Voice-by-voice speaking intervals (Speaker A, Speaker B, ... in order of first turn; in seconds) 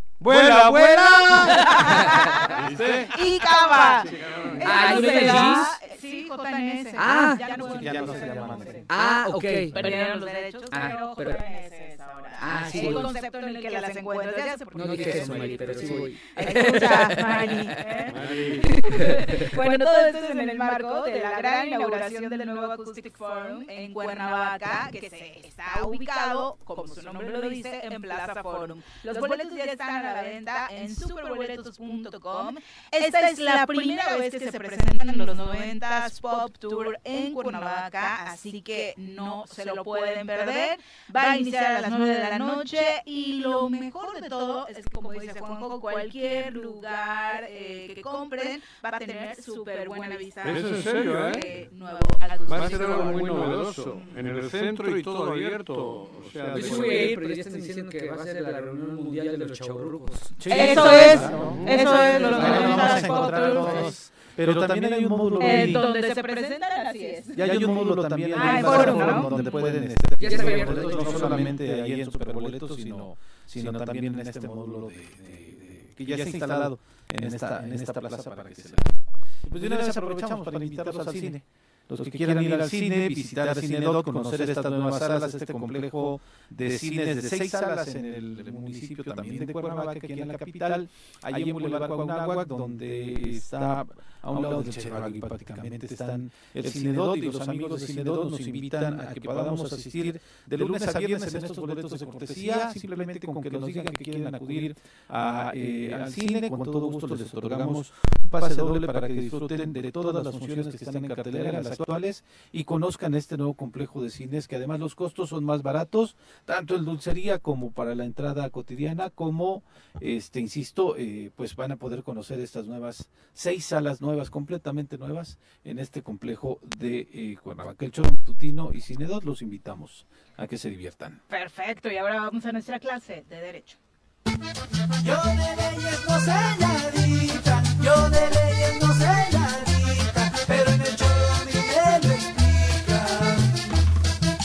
Speaker A: 0.2-3.2, 3.7-5.5, 18.1-19.0, 50.4-51.5, 52.5-57.2, 61.2-62.6
Speaker B: 1.4-8.9, 9.7-54.2, 60.5-63.9, 65.4-67.7, 68.3-69.7, 131.3-133.8
Speaker C: 1.5-2.5, 4.6-5.7, 7.0-7.4, 8.9-9.9, 10.7-11.4, 12.4-13.1, 14.7-18.1, 18.6-19.5, 56.5-61.2, 62.2-62.9, 70.2-71.6
Speaker D: 7.4-9.0, 56.5-56.8, 60.4-65.8, 67.3-131.2
Speaker E: 135.0-143.7